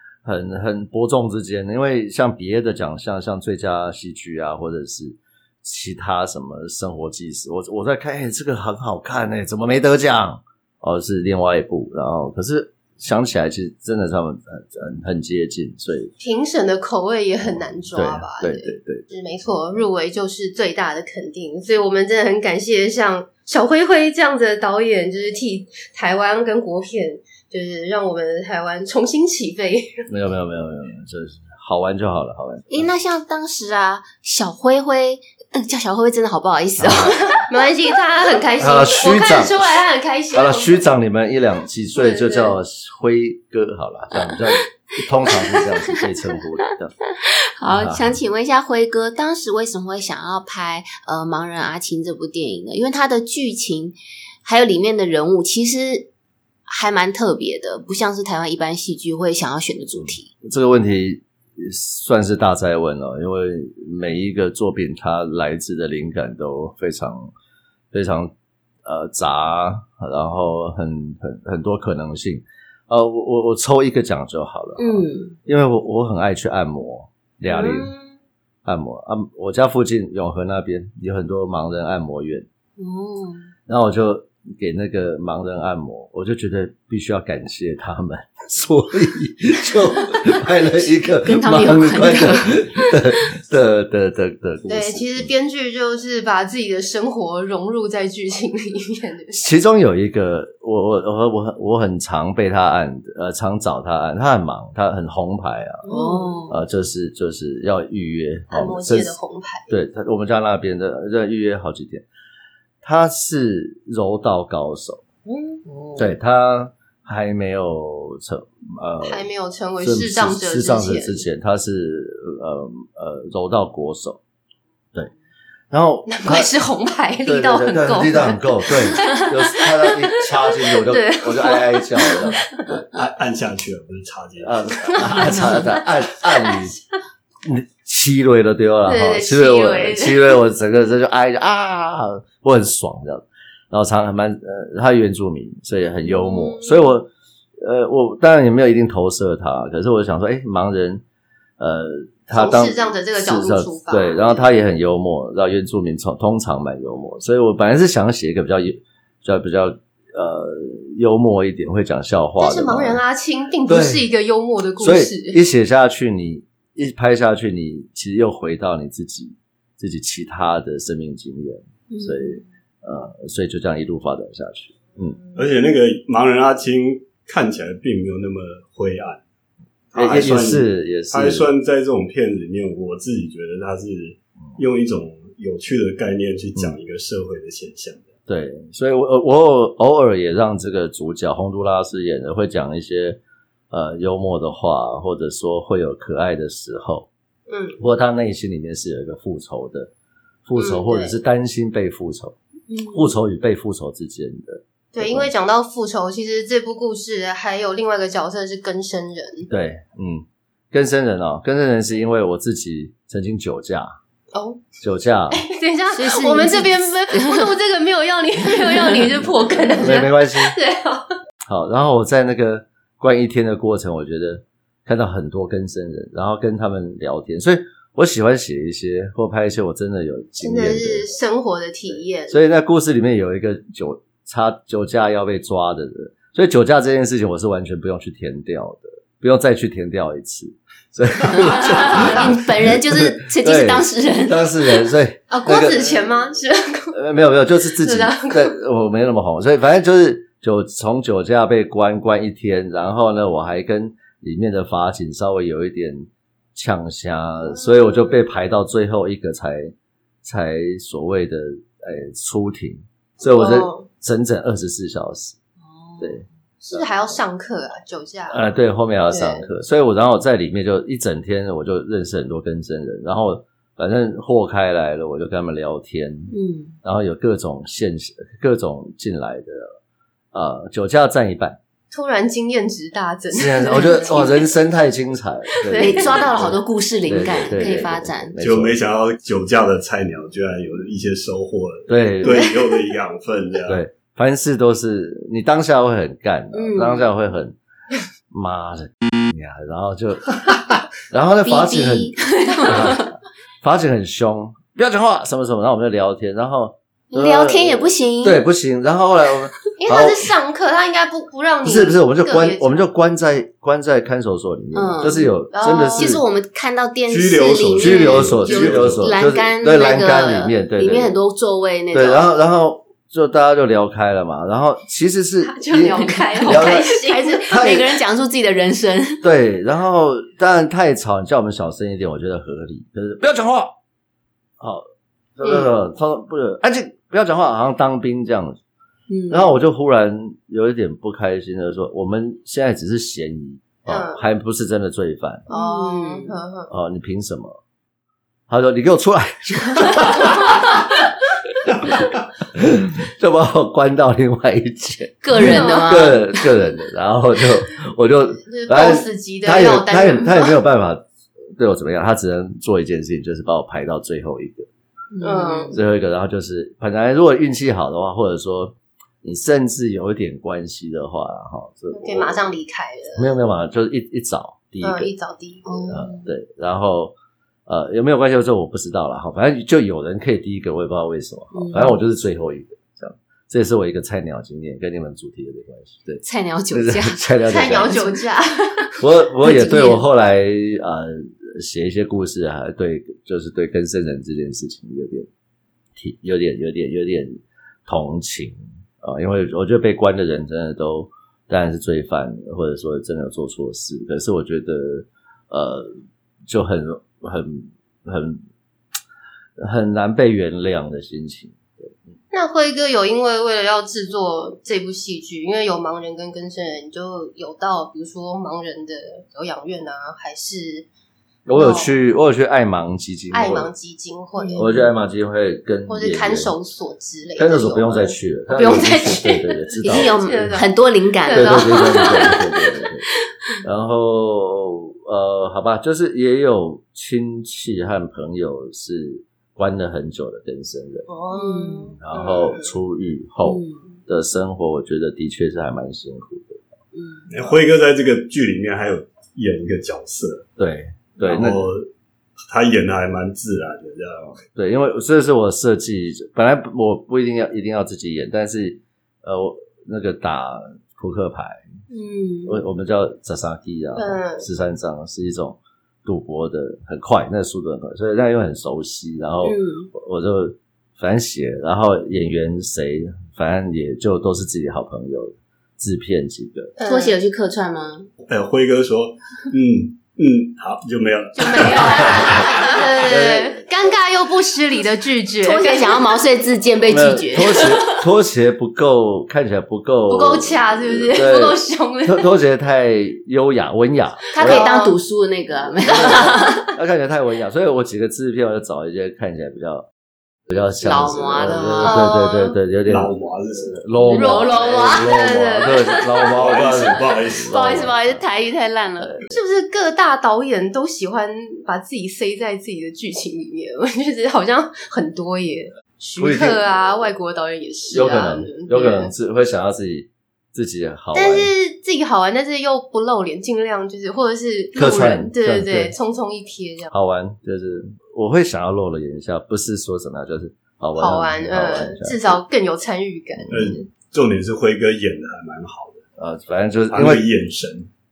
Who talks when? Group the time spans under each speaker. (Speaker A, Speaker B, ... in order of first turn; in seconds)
Speaker A: 0.2-16.1, 17.9-19.0, 30.1-32.9, 36.8-37.1, 38.6-39.5, 40.3-46.9, 47.7-48.1, 60.0-67.3, 67.9-68.3, 68.8-77.9, 78.6-82.5, 83.7-95.3, 99.3-105.9, 106.5-109.1, 109.7-112.0, 112.8-115.0, 116.0-119.2, 119.8-124.2, 125.7-126.5, 127.2-132.6, 134.4-136.8, 137.4-147.1, 147.6-151.0, 151.6-163.0, 163.7-164.1, 164.8-175.2, 179.9-181.5, 188.3-193.2, 193.7-197.1, 197.8-199.9, 200.4-202.3, 202.9-205.3, 209.5-213.9, 214.8-215.4, 219.8-220.6, 221.4-231.0, 232.3-246.0, 246.9-265.4, 266.0-266.8, 268.3-279.8, 280.3-281.6, 283.3-288.8, 291.9-292.4, 293.7-297.6, 298.3-310.3, 311.6-316.2, 317.8-321.2, 321.9-326.9, 327.5-327.9, 329.2-333.7, 334.6-334.9, 335.4-338.6, 339.3-345.5, 346.7-347.6, 348.5-350.8, 351.6-364.7, 365.7-372.4, 373.1-375.1, 375.9-377.1, 377.7-388.0, 389.0-395.3, 395.9-405.9, 406.5-408.4, 409.6-412.1, 421.5-423.7, 424.6-426.5, 427.4-430.6, 431.3-433.1, 433.6-441.1, 442.0-446.6, 450.6-451.6, 454.5-461.6, 462.4-476.7, 483.0-483.6, 486.9-494.7, 495.9-499.9, 500.5-508.2, 509.0-509.4, 516.2-516.6, 517.9-521.5, 524.7-525.9, 526.9-532.4, 536.2-537.2
Speaker B: 16.2-30.0, 37.3-40.8, 42.0-42.5, 77.6-77.8, 94.7-99.4, 105.8-106.3, 108.5-109.7, 115.2-115.6, 119.0-121.2, 126.1-132.8, 134.9-136.7, 138.8-140.4, 146.1-146.9, 152.3-154.5, 162.4-165.4, 197.5-197.8, 200.6-201.1, 204.9-209.5, 214.3-214.6, 215.3-221.1, 230.4-232.4, 245.3-246.9, 247.8-248.5, 257.4-258.1, 263.2-263.9, 266.6-268.4, 269.1-269.4, 281.9-284.5, 285.5-286.3, 309.8-312.8, 315.2-316.1, 325.4-327.6, 335.4-335.7, 343.9-344.2, 345.5-346.7, 355.3-356.1, 358.4-360.6, 365.2-365.8, 371.9-373.3, 374.8-375.9, 387.4-388.9, 389.6-389.9, 412.3-420.9, 421.5-421.9, 423.3-424.8, 425.9-429.3, 429.8-430.7, 431.2-432.4, 441.1-442.7, 463.9-464.4, 476.8-477.1, 481.4-486.2, 490.1-492.3, 494.4-494.9, 496.0-496.4, 501.5-502.5, 504.1-506.1, 509.3-519.1, 521.1-526.9, 531.0-533.8
Speaker C: 32.7-37.4, 47.2-56.1, 56.7-60.3, 74.8-75.3, 77.5-77.9, 82.8-83.5, 91.2-92.9, 105.9-106.5, 115.7-116.1, 171.9-172.4, 202.7-203.1, 215.9-217.5, 218.7-219.0, 241.3-244.5, 265.6-266.2, 276.3-276.8, 285.7-288.4, 296.5-297.1, 301.4-303.1, 307.1-308.4, 314.7-315.3, 315.9-322.2, 325.9-329.2, 339.1-339.5, 345.5-346.4, 355.2-356.3, 365.1-365.8, 375.6-376.3, 381.5-381.9, 386.2-388.2, 389.5-389.9, 424.4-424.8, 428.6-432.4, 441.3-441.9, 443.4-443.8, 446.9-447.3, 461.9-462.6, 469.4-469.9, 476.8-478.1, 481.6-482.8, 485.4-488.0, 494.3-496.7, 500.8-502.1, 504.0-505.2, 505.8-506.2, 507.4-509.1
Speaker D: 132.9-135.3, 175.3-179.2, 179.9-188.1, 288.4-293.8, 317.1-319.1, 447.3-450.4, 451.2-451.9, 452.5-454.4, 478.2-482.7, 502.9-503.8, 506.3-507.9, 533.5-536.0, 536.9-537.9